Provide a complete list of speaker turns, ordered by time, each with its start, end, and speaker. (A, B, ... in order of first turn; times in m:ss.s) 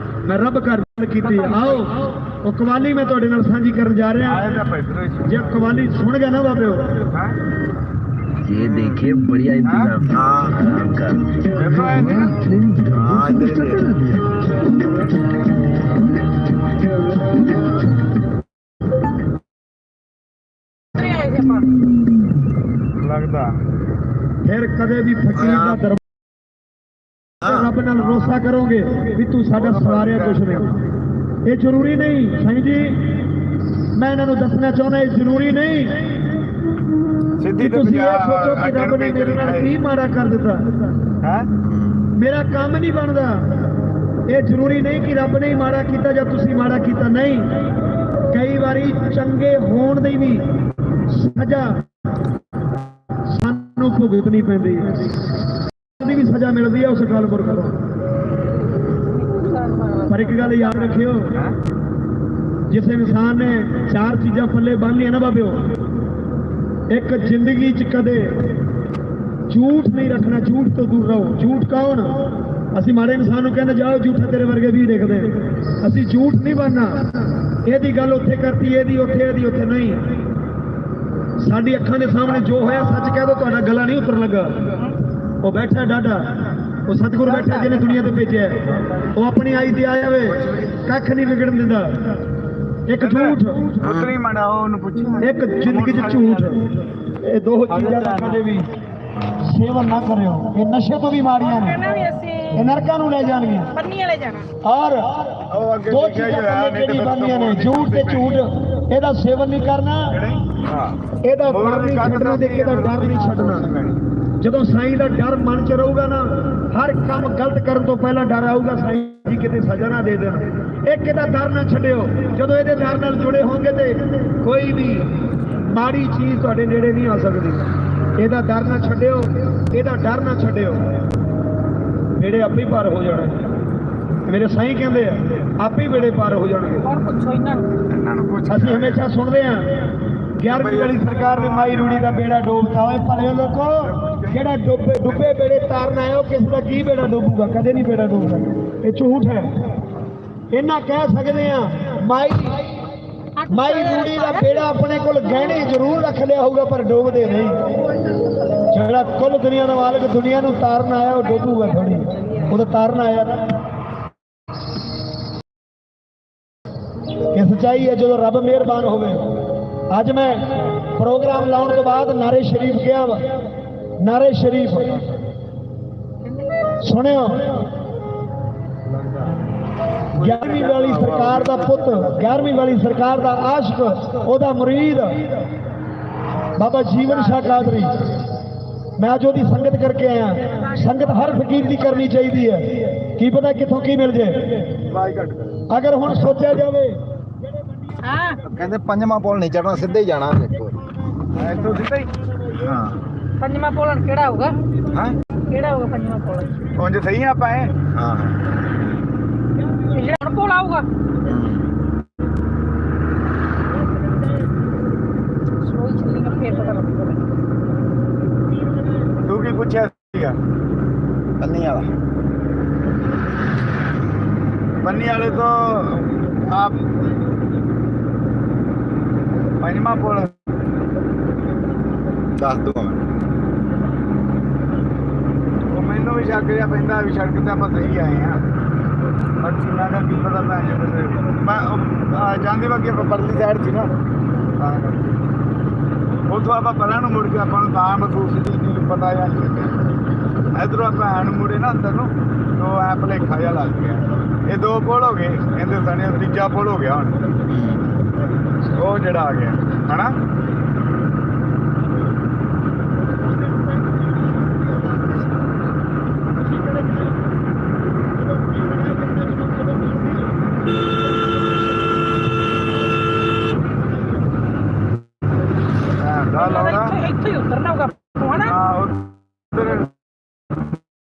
0:00.2-0:04.5 A
0:01.3-0:01.8 B
0:04.2-0:05.6 C
0:05.2-0:07.0 A
0:07.1-0:07.3 C
0:08.4-0:14.3 D
0:09.6-0:09.9 C
0:10.0-0:10.6 E
0:11.4-0:12.4 C
0:12.9-0:13.9 E
0:21.0-0:21.6 B
0:22.9-0:23.6 C
0:24.4-0:26.0 A
0:25.4-0:25.8 E
0:27.4-0:30.8 A
0:27.4-0:27.7 E
0:28.0-0:28.4 C
0:29.5-0:30.8 C
0:31.4-0:33.2 A
0:33.9-0:36.1 A
0:37.4-0:39.7 C
0:37.6-0:40.9 A
0:41.2-0:41.5 C
0:42.1-0:43.5 A
0:44.3-0:47.6 A
0:48.3-0:50.4 A
0:51.0-0:51.8 A
0:53.2-0:55.1 A
0:56.0-0:57.8 A
0:58.8-1:00.8 B
1:00.1-1:01.4 A
1:02.7-1:05.7 A
1:06.9-1:08.5 A
1:09.5-1:20.1 A
1:21.4-1:24.7 A
1:25.4-1:32.0 A
1:32.9-1:33.7 A
1:33.0-1:36.6 C
1:33.8-1:34.1 E
1:35.2-1:38.6 A
1:37.7-1:38.4 C
1:39.3-1:41.8 A
1:41.4-1:42.5 B
1:42.5-1:43.7 A
1:43.7-1:44.5 B
1:44.6-1:50.1 A
1:45.4-1:48.4 C
1:50.2-1:54.0 C
1:51.2-1:53.7 A
1:54.4-2:10.8 A
2:12.2-2:13.4 A
2:14.2-2:16.9 A
2:16.8-2:17.7 B
2:17.8-2:19.0 C
2:18.5-2:19.7 A
2:20.4-2:29.5 A
2:20.5-2:22.2 C
2:23.8-2:24.4 C
2:30.5-2:32.7 A
2:33.4-2:34.6 B
2:33.5-2:37.7 A
2:38.7-2:43.5 A
2:47.3-2:53.4 A
2:54.0-2:55.0 A
2:56.8-2:57.6 A
3:00.1-3:05.3 A
3:00.2-3:02.0 C
3:06.6-3:08.2 A
3:09.0-3:14.8 A
3:14.9-3:15.6 C
3:15.7-3:17.0 A
3:18.0-3:18.4 B
3:18.4-3:20.7 E
3:21.3-3:22.1 C
3:22.6-3:22.9 E
3:23.4-3:24.5 B
3:25.5-3:26.5 B
3:26.7-3:27.8 C
3:27.9-3:28.3 E
3:29.9-3:30.8 B
3:31.3-3:31.6 E
3:35.6-3:37.3 B
3:39.2-3:40.4 C
3:41.4-3:41.9 E
3:44.8-3:46.8 C
3:49.6-3:50.3 C
3:52.4-3:53.0 E
3:55.7-3:58.4 C
3:59.4-4:03.9 C
4:04.6-4:05.1 C
4:06.3-4:09.8 C
4:10.5-4:17.2 C
4:18.7-4:20.2 C
4:36.0-4:37.0 C
4:36.4-4:38.5 B
4:38.4-4:39.9 C